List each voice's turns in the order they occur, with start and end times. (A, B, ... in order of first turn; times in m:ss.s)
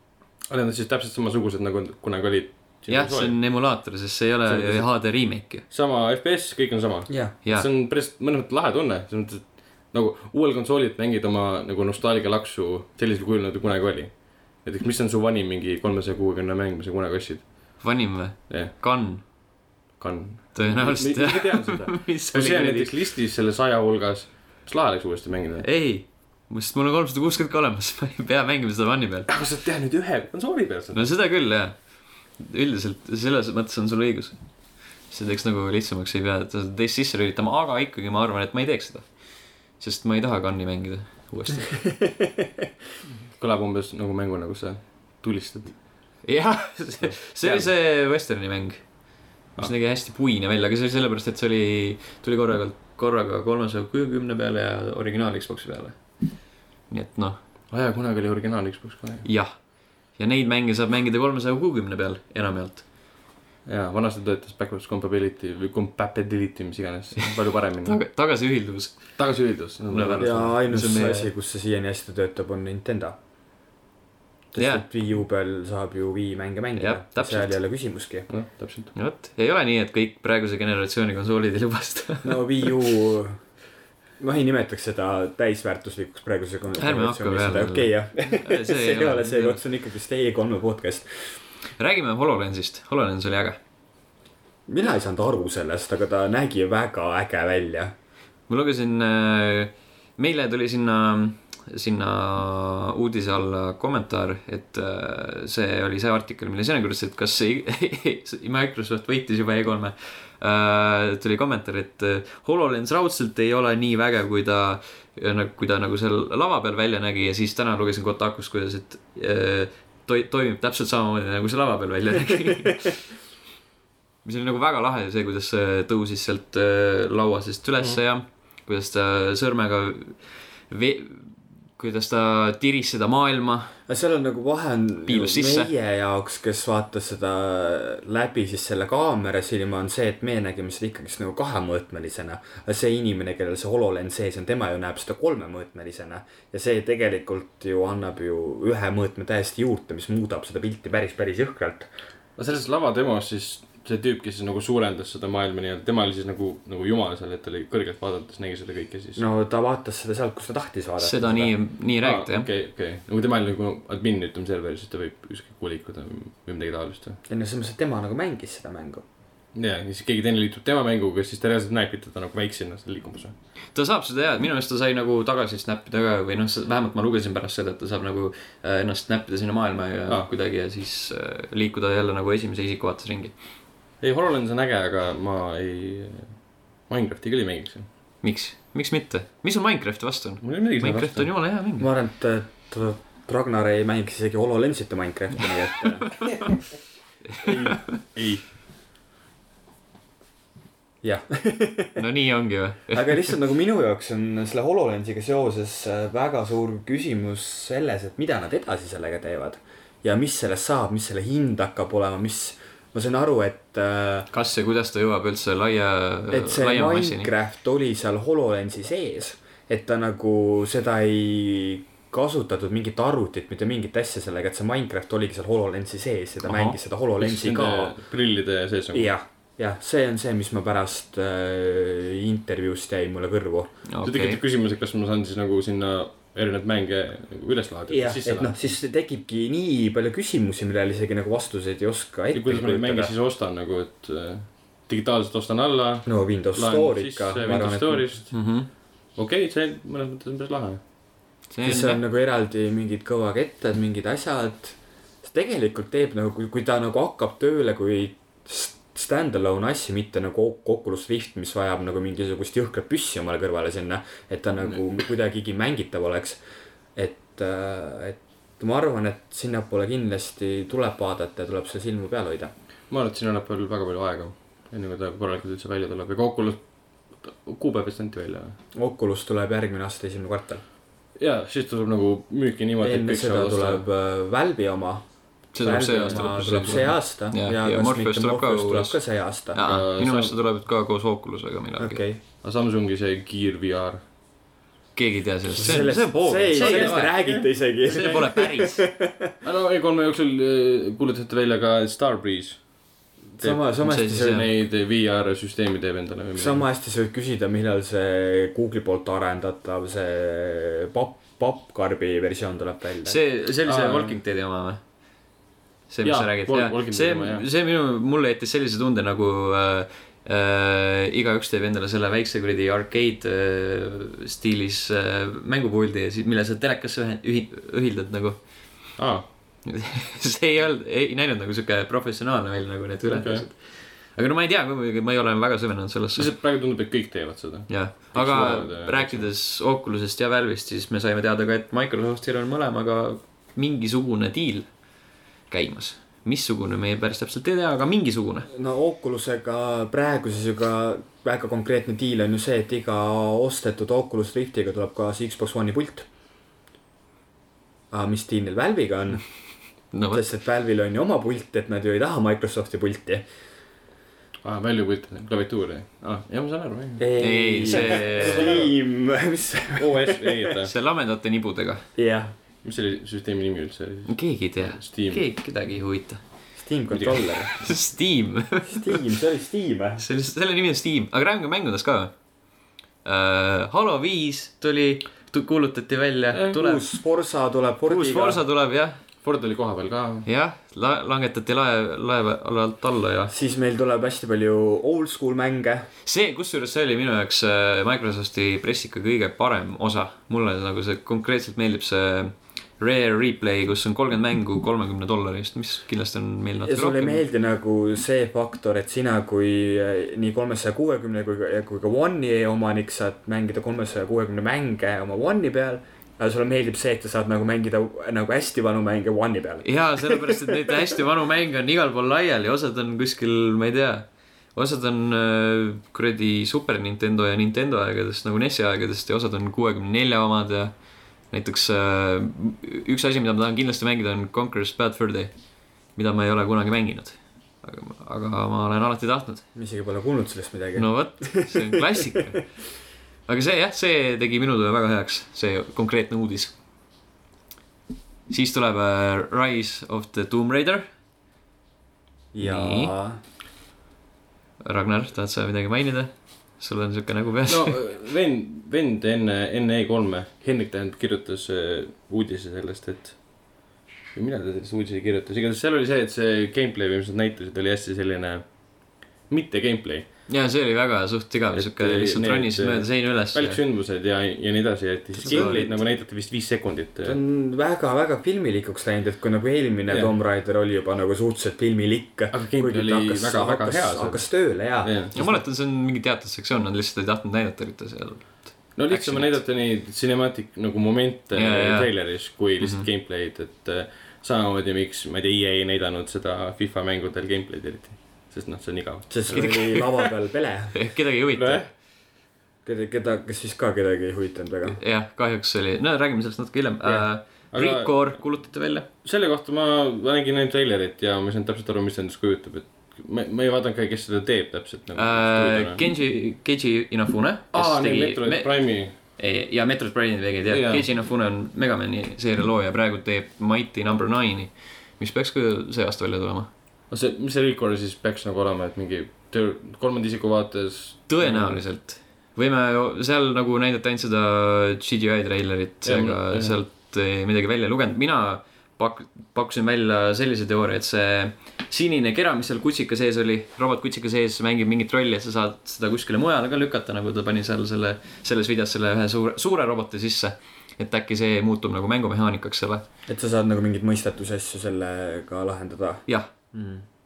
0:00.5-0:03.4 A
0:02.9-0:05.6 B
0:04.4-0:05.0 A
0:05.7-0:17.9 A
0:07.1-0:07.4 C
0:17.8-0:19.2 B
0:20.0-0:25.6 A
0:20.5-0:22.9 B
0:25.6-0:29.3 B
0:29.3-0:31.1 A
0:30.9-0:41.8 B
0:42.0-0:42.3 C
0:43.3-0:45.9 A
0:46.2-0:57.4 B
0:47.0-0:47.7 A
0:57.7-0:59.3 A
0:59.2-1:02.8 B
1:03.6-1:08.0 A
1:07.8-1:09.2 B
1:09.2-1:10.5 A
1:09.9-1:11.3 B
1:10.2-1:13.2 C
1:14.5-1:18.3 C
1:14.5-1:14.8 B
1:16.8-1:17.6 B
1:18.3-1:18.9 A
1:18.9-1:22.7 B
1:22.2-1:23.4 C
1:24.2-1:31.4 C
1:26.8-1:29.6 B
1:31.8-1:33.6 B
1:34.7-1:37.9 C
1:38.5-2:03.0 B
2:04.2-2:13.8 B
2:13.9-2:31.9 C
2:15.1-2:15.7 B
2:32.4-2:39.2 A
2:39.2-2:41.5 C
2:41.0-2:42.5 B
2:42.0-2:47.2 A
2:47.3-2:49.0 C
2:49.5-2:53.3 A
2:53.7-3:03.3 B
3:04.0-3:07.9 A
3:08.2-3:11.9 B
3:10.4-3:11.3 A
3:11.8-3:16.6 C
3:17.4-3:17.8 C
3:18.1-3:18.4 A
3:21.0-3:22.0 C
3:22.0-3:23.3 B
3:22.9-3:34.3 C
3:34.3-3:37.3 B
3:36.3-3:47.9 C
3:46.4-3:46.8 B
3:47.2-3:49.1 A
3:48.9-3:53.7 C
3:53.9-3:54.4 B
3:54.0-3:58.6 A
3:57.9-4:03.1 C
4:02.3-4:08.5 A
4:06.1-4:08.1 C
4:08.3-4:08.7 B
4:09.1-4:10.8 A
4:11.5-4:12.0 B
4:11.6-4:26.4 C
4:27.0-4:32.5 C
4:32.9-4:36.6 A
4:37.2-4:38.6 A
4:38.8-4:40.6 C
4:41.2-4:43.8 A
4:42.8-4:49.6 C
4:45.5-4:49.0 B
4:46.0-4:46.7 A
4:49.5-4:52.0 B
4:49.6-4:50.3 A
4:51.8-4:52.2 C
4:52.4-4:54.0 A
4:55.0-4:57.2 B
4:55.5-4:59.4 C
4:56.5-4:58.2 A
4:57.8-4:58.8 B
4:59.4-5:02.6 A
5:03.3-5:04.4 C
5:03.4-5:06.6 A
5:03.8-5:04.5 B
5:06.4-5:13.2 C
5:13.0-5:14.8 B
5:13.6-5:14.2 A
5:15.9-5:28.4 B
5:16.0-5:17.4 A
5:29.0-5:29.2 A
5:29.6-5:36.3 B
5:33.1-5:33.4 A
5:36.2-5:39.3 A
5:37.7-5:44.7 B
5:45.5-5:48.5 B
5:48.5-5:56.1 C
5:57.9-5:59.2 C
5:59.9-6:00.2 B
6:00.1-6:03.2 C
6:04.4-6:07.1 A
6:07.0-6:10.5 C
6:07.2-6:08.6 B
6:07.6-6:08.7 A
6:09.8-6:10.7 A
6:10.6-6:11.8 B
6:12.0-6:12.3 C
6:12.6-6:15.2 A
6:14.1-6:16.2 B
6:16.6-6:17.5 C
6:16.9-6:17.3 A
6:17.6-6:19.0 B
6:18.7-6:20.0 C
6:20.0-6:22.1 B
6:23.0-6:26.8 B
6:26.3-6:26.6 A
6:26.5-6:28.4 C
6:27.8-6:29.0 B
6:29.2-6:30.3 A
6:30.2-6:33.3 B
6:33.3-6:35.9 C
6:36.0-6:47.2 B
6:46.6-7:00.8 C
6:59.6-7:10.7 B
7:11.3-7:15.3 B
7:15.9-7:19.4 B
7:19.5-7:22.3 C
7:20.8-7:22.4 B
7:23.3-7:26.5 B
7:28.3-7:30.8 B
7:32.3-7:33.2 C
7:32.4-7:32.9 B
7:34.6-7:37.8 B
7:37.5-7:43.5 A
7:44.1-7:50.1 A
7:50.3-7:53.6 B
7:51.5-7:57.2 A
7:55.1-7:55.8 B
7:55.3-7:55.8 C
7:57.0-8:05.4 C
8:02.3-8:04.3 A
8:04.8-8:05.1 A
8:05.1-8:09.4 B
8:08.8-8:19.8 A
8:11.4-8:12.0 B
8:12.6-8:12.8 B
8:19.1-8:20.8 C
8:19.3-8:20.1 B
8:20.7-8:21.6 B
8:21.4-8:21.7 A
8:22.6-8:24.8 C
8:24.7-8:28.8 B
8:27.5-8:28.2 A
8:29.0-8:35.8 A
8:35.0-8:46.5 B
8:37.5-8:38.9 A
8:40.5-8:40.8 A
8:46.9-8:51.6 A
8:51.1-9:12.8 B
8:55.8-8:56.6 A
9:13.1-9:16.8 C